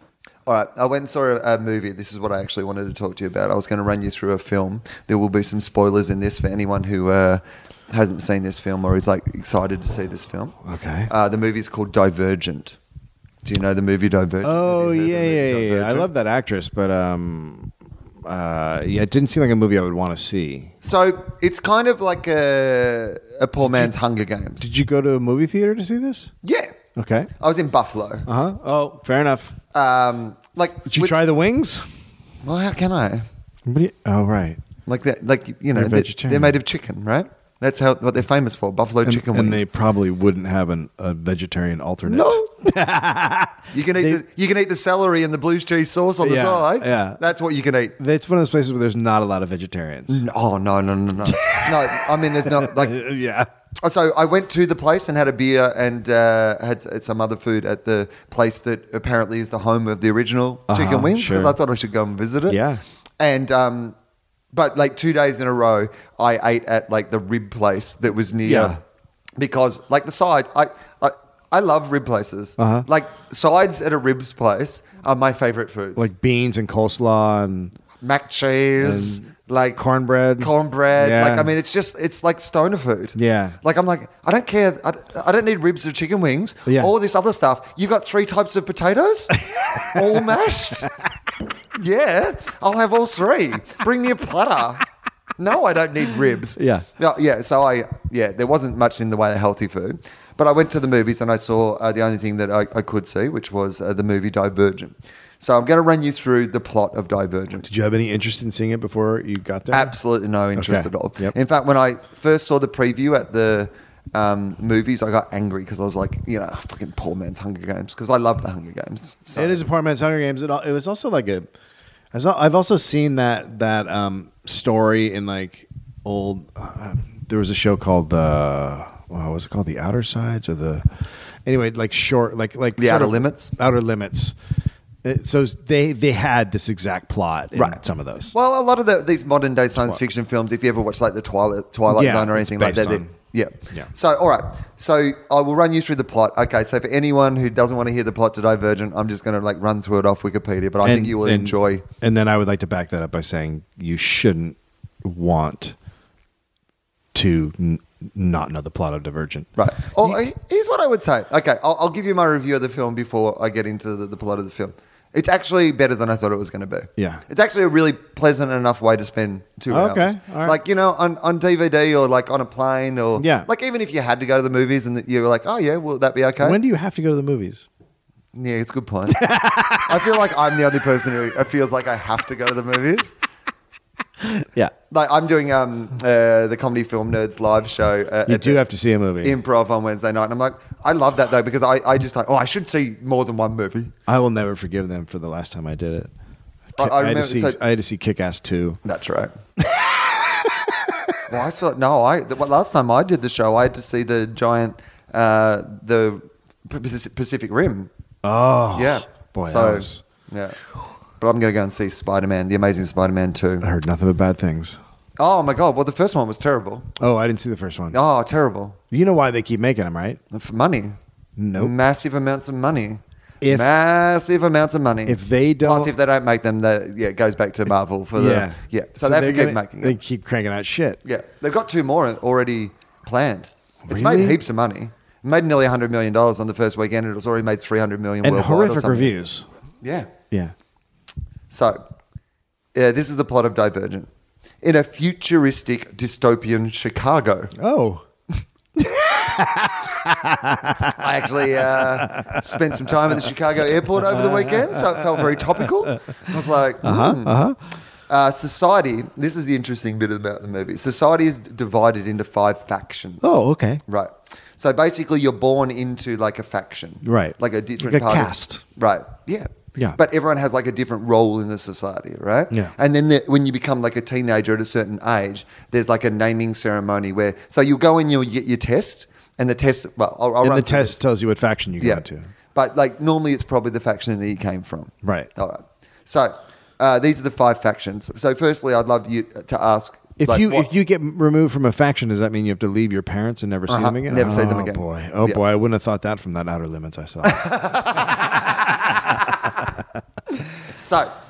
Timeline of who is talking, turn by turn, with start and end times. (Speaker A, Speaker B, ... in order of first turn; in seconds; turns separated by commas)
Speaker A: 0.5-10.6, Speaker B: 10.6-11.1, Speaker A: 11.1-12.8, Speaker A: 13.4-16.1, Speaker B: 14.4-17.7, Speaker B: 18.2-20.7, Speaker A: 20.8-24.6, Speaker B: 23.6-23.9, Speaker B: 24.6-26.3, Speaker A: 26.4-26.7, Speaker B: 26.9-27.3, Speaker A: 27.4-28.2, Speaker B: 28.2-29.6, Speaker A: 29.7-31.1, Speaker B: 30.9-31.9, Speaker A: 32.4-33.2, Speaker B: 33.6-34.6, Speaker A: 34.9-39.6, Speaker B: 35.7-36.6, Speaker B: 39.0-44.2, Speaker A: 42.1-42.5, Speaker A: 43.7-48.0, Speaker B: 46.2-47.2, Speaker B: 48.0-50.2, Speaker A: 50.1-53.0, Speaker B: 51.2-53.5, Speaker A: 53.8-62.6, Speaker B: 60.7-61.5, Speaker B: 62.5-62.8, Speaker A: 63.2-63.9, Speaker A: 64.5-68.8, Speaker B: 68.4-68.8, Speaker A: 69.4-76.1, Speaker B: 72.6-72.8, Speaker B: 76.0-77.7, Speaker A: 78.0-79.8, Speaker B: 78.8-79.2, Speaker B: 79.8-81.5, Speaker A: 80.4-90.9, Speaker B: 83.1-83.6, Speaker B: 86.7-86.9, Speaker B: 89.5-90.0, Speaker A: 91.8-94.8, Speaker A: 95.4-107.7, Speaker B: 96.6-96.8, Speaker B: 107.6-109.9, Speaker A: 109.7-119.6, Speaker B: 110.5-111.3, Speaker B: 119.3-121.5, Speaker B: 122.1-130.9, Speaker B: 131.4-134.3, Speaker A: 132.8-133.5, Speaker B: 135.0-138.3, Speaker A: 138.3-151.8, Speaker B: 141.9-143.1, Speaker B: 150.8-155.7, Speaker B: 157.1-159.5, Speaker A: 159.6-176.6, Speaker B: 167.0-167.2, Speaker B: 169.7-170.6, Speaker B: 173.2-173.5, Speaker B: 176.4-177.7, Speaker A: 178.3-179.3, Speaker B: 179.1-180.0, Speaker A: 179.8-183.1, Speaker B: 184.2-184.7, Speaker A: 184.9-188.6, Speaker B: 188.3-189.4, Speaker A: 189.2-193.9, Speaker B: 194.1-196.1, Speaker B: 196.8-198.8, Speaker A: 196.8-197.6, Speaker A: 198.8-199.3, Speaker A: 201.3-207.9, Speaker B: 208.2-210.0, Speaker A: 208.7-210.6, Speaker A: 211.2-213.7, Speaker B: 213.6-214.8, Speaker A: 215.2-216.9, Speaker B: 217.0-218.0, Speaker A: 217.9-218.8, Speaker B: 218.9-220.2, Speaker A: 220.3-221.0, Speaker B: 221.4-221.7, Speaker A: 221.6-230.0, Speaker B: 223.4-223.7, Speaker B: 225.1-225.9, Speaker B: 228.2-231.0, Speaker A: 231.0-239.1, Speaker B: 233.8-234.4, Speaker B: 238.2-239.5, Speaker A: 239.8-240.1, Speaker A: 241.5-241.8, Speaker A: 242.7-244.1, Speaker A: 244.6-247.5, Speaker B: 247.6-248.0, Speaker B: 248.8-251.0, Speaker A: 250.9-257.3, Speaker B: 251.9-252.4, Speaker B: 254.1-255.2, Speaker B: 256.8-257.6, Speaker A: 258.1-263.3, Speaker B: 263.2-263.8, Speaker A: 263.9-281.0, Speaker B: 267.0-268.6, Speaker B: 280.4-282.3, Speaker A: 282.5-290.7, Speaker B: 285.0-285.3, Speaker B: 290.2-297.4, Speaker A: 293.7-295.4, Speaker A: 297.2-298.9, Speaker B: 297.9-299.3, Speaker A: 300.8-301.1